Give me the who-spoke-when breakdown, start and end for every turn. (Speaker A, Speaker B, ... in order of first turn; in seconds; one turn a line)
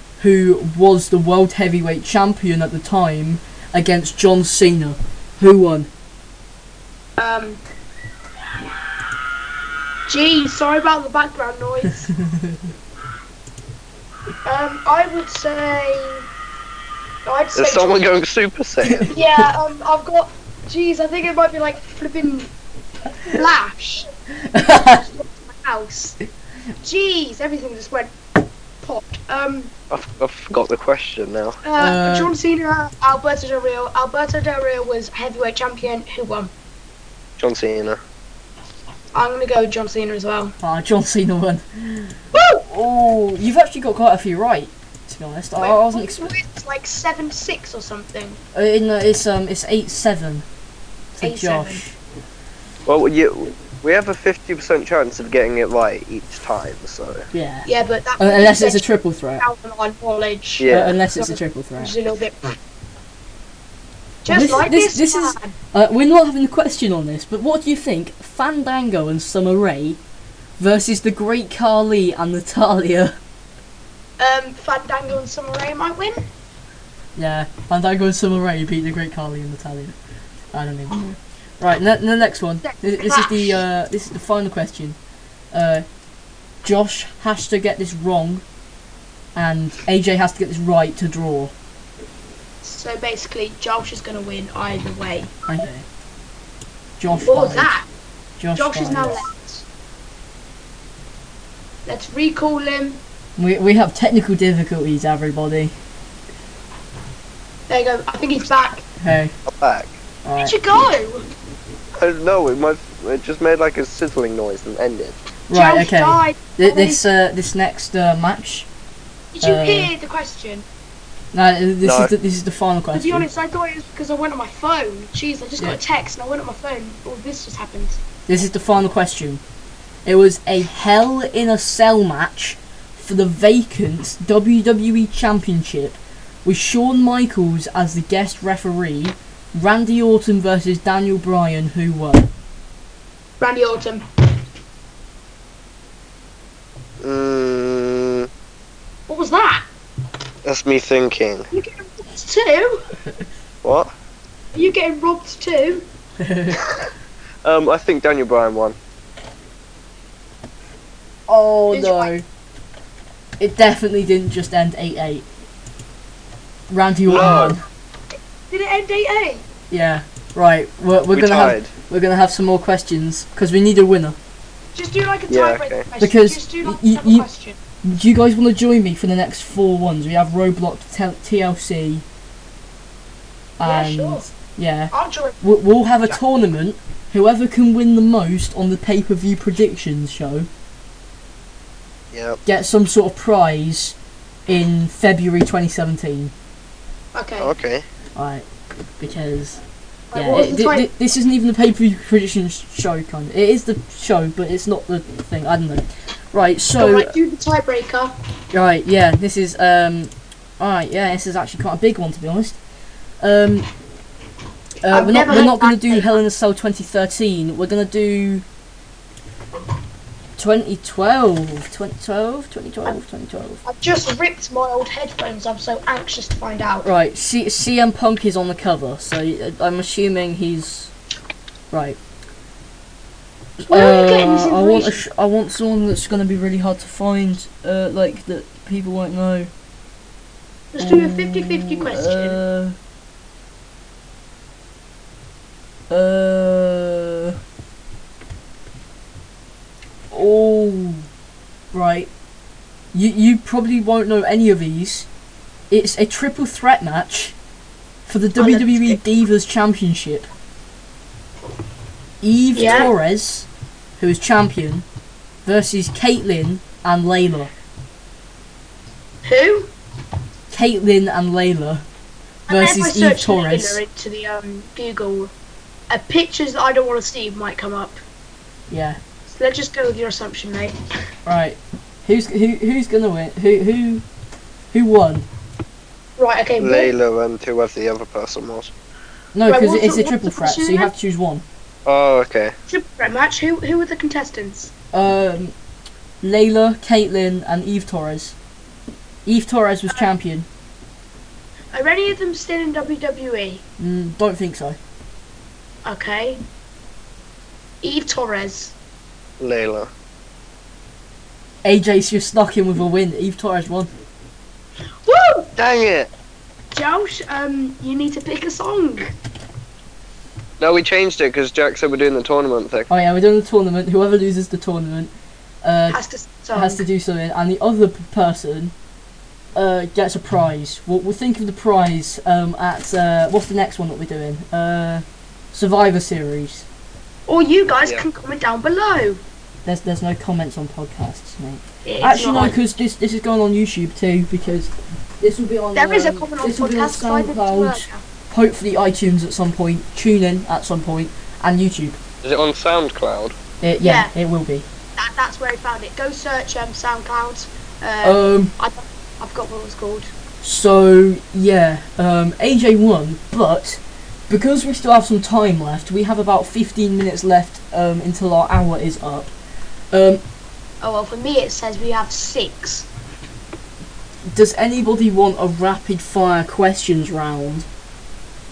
Speaker A: 0.2-5.9
Speaker B: 7.2-7.6
Speaker B: 10.1-12.1
Speaker A: 12.2-12.6
Speaker B: 14.4-16.2
Speaker B: 17.2-18.1
Speaker C: 17.5-19.1
Speaker A: 18.8-19.1
Speaker B: 19.1-22.5
Speaker B: 23.2-24.1
Speaker A: 24.5-25.0
Speaker B: 24.9-26.2
Speaker B: 26.8-28.1
Speaker B: 28.8-29.7
Speaker C: 29.9-31.6
Speaker B: 31.6-36.5
Speaker A: 31.8-32.3
Speaker C: 37.4-38.0
Speaker B: 39.1-40.5
Speaker A: 40.6-46.3
Speaker B: 45.6-48.4
Speaker A: 48.5-50.4
Speaker A: 51.1-52.0
Speaker B: 51.2-51.8
Speaker C: 52.9-57.2
Speaker A: 57.3-57.7
Speaker B: 57.6-58.9
Speaker A: 58.2-59.4
Speaker B: 59.4-62.5
Speaker C: 60.6-61.0
Speaker A: 60.7-61.9
Speaker B: 64.2-65.5
Speaker A: 64.3-70.0
Speaker A: 70.6-73.2
Speaker B: 74.2-76.3
Speaker A: 77.2-80.0
Speaker A: 80.5-85.0
Speaker B: 82.6-83.6
Speaker A: 85.5-85.8
Speaker A: 86.6-88.4
Speaker A: 89.3-91.5
Speaker B: 92.6-95.3
Speaker A: 95.5-95.8
Speaker A: 97.0-97.7
Speaker B: 97.2-97.9
Speaker A: 98.4-99.2
Speaker B: 98.5-99.6
Speaker B: 101.8-103.0
Speaker A: 103.4-105.7
Speaker B: 107.7-108.8
Speaker A: 109.0-109.3
Speaker C: 109.5-110.0
Speaker A: 110.2-110.5
Speaker B: 110.4-111.2
Speaker C: 112.0-115.2
Speaker A: 115.5-118.7
Speaker B: 115.5-117.0
Speaker B: 119.3-120.6
Speaker A: 119.4-119.9
Speaker A: 121.3-123.2
Speaker C: 121.8-122.1
Speaker B: 122.9-128.0
Speaker A: 128.3-129.4
Speaker A: 130.1-142.3
Speaker B: 143.4-144.1
Speaker C: 147.0-148.3
Speaker B: 149.1-149.7
Speaker C: 150.4-151.5
Speaker B: 151.5-152.8
Speaker C: 153.6-153.9
Speaker B: 154.5-155.8
Speaker A: 156.2-156.6
Speaker C: 157.4-158.8
Speaker A: 161.3-162.2
Speaker B: 161.7-162.1
Speaker A: 163.4-165.2
Speaker A: 166.7-167.6
Speaker C: 167.1-167.6
Speaker B: 167.1-167.5
Speaker B: 168.5-169.4
Speaker A: 169.7-174.2
Speaker C: 171.1-171.7
Speaker B: 174.7-177.6
Speaker C: 175.3-175.8
Speaker A: 176.0-177.3
Speaker A: 177.8-182.0
Speaker A: 183.6-190.5
Speaker B: 183.6-184.3
Speaker B: 184.9-185.4
Speaker C: 192.1-192.4
Speaker A: 192.4-193.9
Speaker A: 194.5-196.3
Speaker B: 197.1-197.5
Speaker C: 197.4-197.8
Speaker A: 198.2-198.4
Speaker A: 199.0-199.6
Speaker B: 200.1-200.9
Speaker A: 200.1-207.1
Speaker B: 206.8-208.1
Speaker A: 208.5-212.6
Speaker A: 213.2-213.7
Speaker A: 214.8-218.4
Speaker B: 214.9-216.1
Speaker A: 220.4-223.6
Speaker B: 223.6-226.9
Speaker A: 226.8-230.9
Speaker A: 231.7-232.0
Speaker A: 233.6-239.5
Speaker B: 233.7-235.0
Speaker B: 240.7-242.4
Speaker A: 240.8-242.8
Speaker A: 245.9-247.3
Speaker A: 250.1-251.1
Speaker A: 251.7-252.1
Speaker A: 252.9-255.1
Speaker A: 255.7-257.4
Speaker A: 258.1-260.3
Speaker B: 258.4-259.0
Speaker A: 262.2-263.5
Speaker B: 262.5-262.9
Speaker A: 264.0-264.9
Speaker A: 265.4-267.5
Speaker B: 269.2-269.7
Speaker A: 270.5-271.8
Speaker B: 272.5-275.3
Speaker A: 272.5-273.8
Speaker B: 275.9-278.0
Speaker A: 278.7-279.0
Speaker B: 279.3-280.8
Speaker A: 281.2-284.0
Speaker A: 284.7-285.3
Speaker B: 286.2-286.9
Speaker C: 286.6-288.7
Speaker A: 289.3-291.4
Speaker B: 289.5-290.9
Speaker C: 291.9-292.5
Speaker B: 292.7-294.7
Speaker A: 294.9-295.5
Speaker A: 296.2-298.4
Speaker A: 299.2-300.5
Speaker B: 301.7-303.6
Speaker A: 303.8-304.8
Speaker B: 305.8-306.4
Speaker B: 307.8-308.7
Speaker C: 309.4-309.9
Speaker A: 311.6-313.9
Speaker B: 315.0-315.5
Speaker C: 315.6-316.1
Speaker B: 316.7-319.1
Speaker C: 320.6-322.9
Speaker A: 322.9-325.1
Speaker A: 325.6-326.0
Speaker B: 325.9-326.8
Speaker A: 326.5-328.7
Speaker A: 329.5-336.6
Speaker B: 337.3-339.2
Speaker A: 339.6-352.0
Speaker B: 341.8-342.6
Speaker B: 345.7-348.0
Speaker C: 352.2-353.4
Speaker A: 353.6-354.7
Speaker B: 353.8-354.1
Speaker B: 355.0-360.1
Speaker A: 358.0-358.5
Speaker A: 360.4-369.3
Speaker A: 369.9-370.2
Speaker B: 370.8-372.9
Speaker A: 374.3-377.7